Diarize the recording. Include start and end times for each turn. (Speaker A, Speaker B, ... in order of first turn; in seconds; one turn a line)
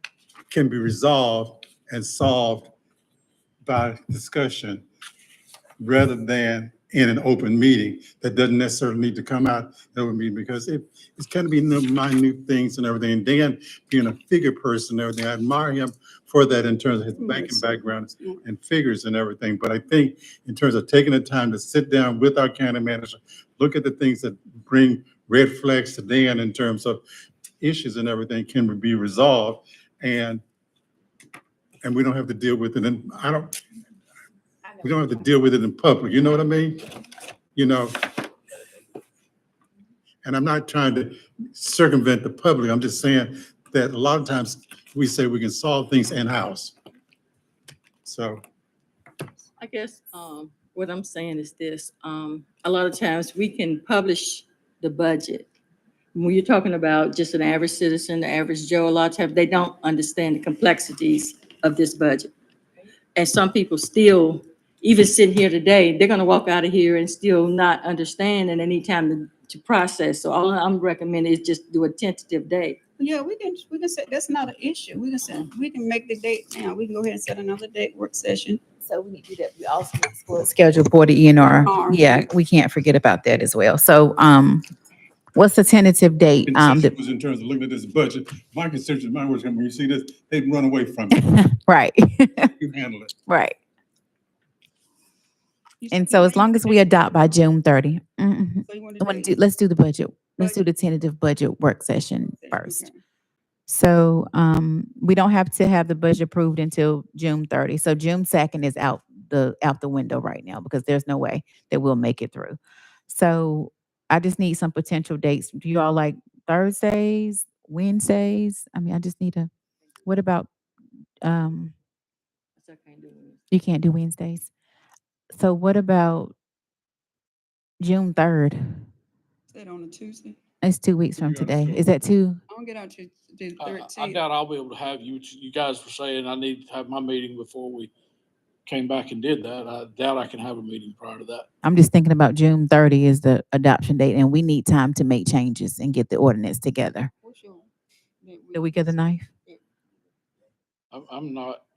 Speaker A: 0.5-2.7
Speaker A: 3.6-4.8
Speaker A: 5.8-27.0
Speaker B: 17.2-18.4
Speaker A: 27.6-30.4
Speaker A: 31.8-33.5
Speaker A: 34.8-36.8
Speaker A: 37.5-38.0
Speaker A: 40.2-46.8
Speaker A: 48.0-48.4
Speaker C: 49.6-55.5
Speaker C: 56.1-62.3
Speaker C: 63.1-72.8
Speaker B: 73.0-78.6
Speaker D: 78.8-84.6
Speaker B: 81.6-82.2
Speaker D: 85.3-86.9
Speaker A: 86.5-91.3
Speaker D: 91.1-92.5
Speaker A: 92.6-93.1
Speaker D: 93.3-93.5
Speaker B: 95.8-96.9
Speaker D: 95.9-102.9
Speaker B: 98.7-99.3
Speaker B: 102.3-103.0
Speaker D: 103.7-119.5
Speaker D: 120.0-120.5
Speaker D: 121.2-121.7
Speaker C: 122.6-123.4
Speaker D: 123.5-124.5
Speaker D: 125.3-126.3
Speaker D: 127.8-128.8
Speaker B: 129.5-130.4
Speaker D: 130.6-132.4
Speaker E: 131.2-131.8
Speaker B: 132.5-134.2
Speaker E: 133.6-137.9
Speaker E: 138.7-141.4
Speaker D: 141.6-147.1
Speaker B: 147.2-147.7
Speaker B: 148.2-149.1
Speaker D: 148.5-149.3
Speaker E: 150.9-151.6